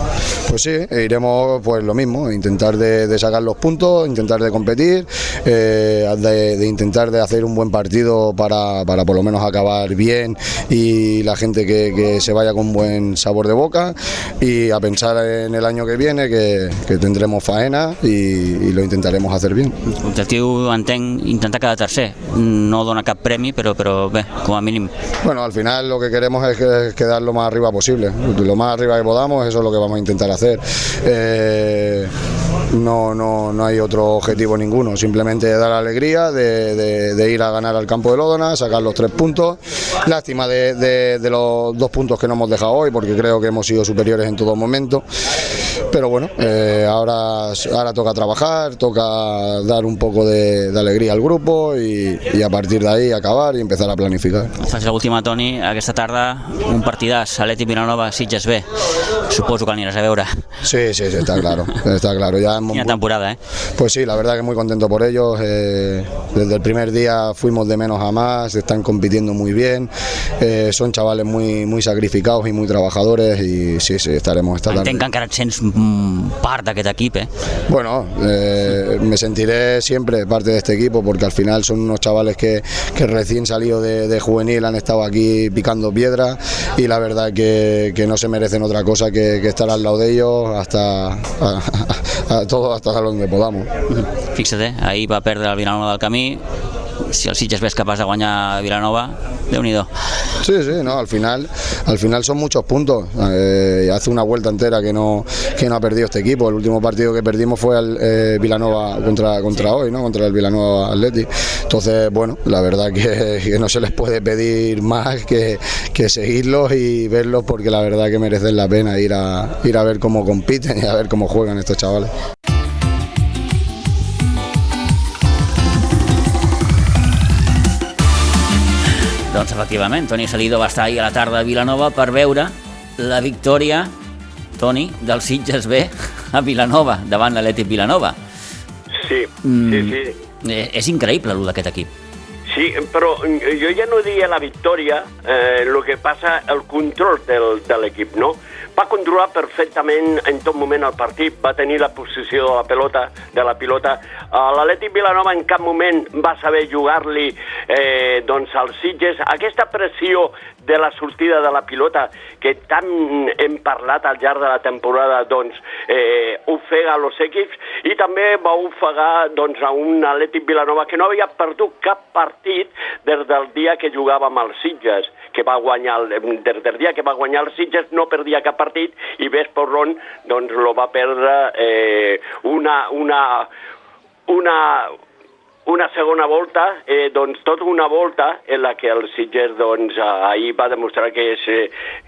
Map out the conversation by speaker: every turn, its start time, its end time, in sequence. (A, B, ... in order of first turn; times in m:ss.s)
0:00.5-0:19.8 A
0:19.9-0:24.9 B
0:25.2-0:32.1 A
0:32.7-0:45.1 A
0:45.9-0:54.5 A
0:54.6-0:58.7 B
0:59.3-1:00.4 B
1:00.6-1:03.0 A
1:02.7-1:03.4 B
1:03.8-1:15.0 A
1:14.7-1:17.3 B
1:17.7-1:33.7 A
1:33.9-1:36.4 B
1:37.0-1:39.9 B
1:40.4-2:02.1 A
2:09.3-2:13.9 B
2:14.6-2:18.2 B
2:19.0-2:20.1 C
2:19.4-2:21.9 B
2:22.5-3:03.5 C
3:04.3-3:04.9 C
3:05.7-3:11.7 C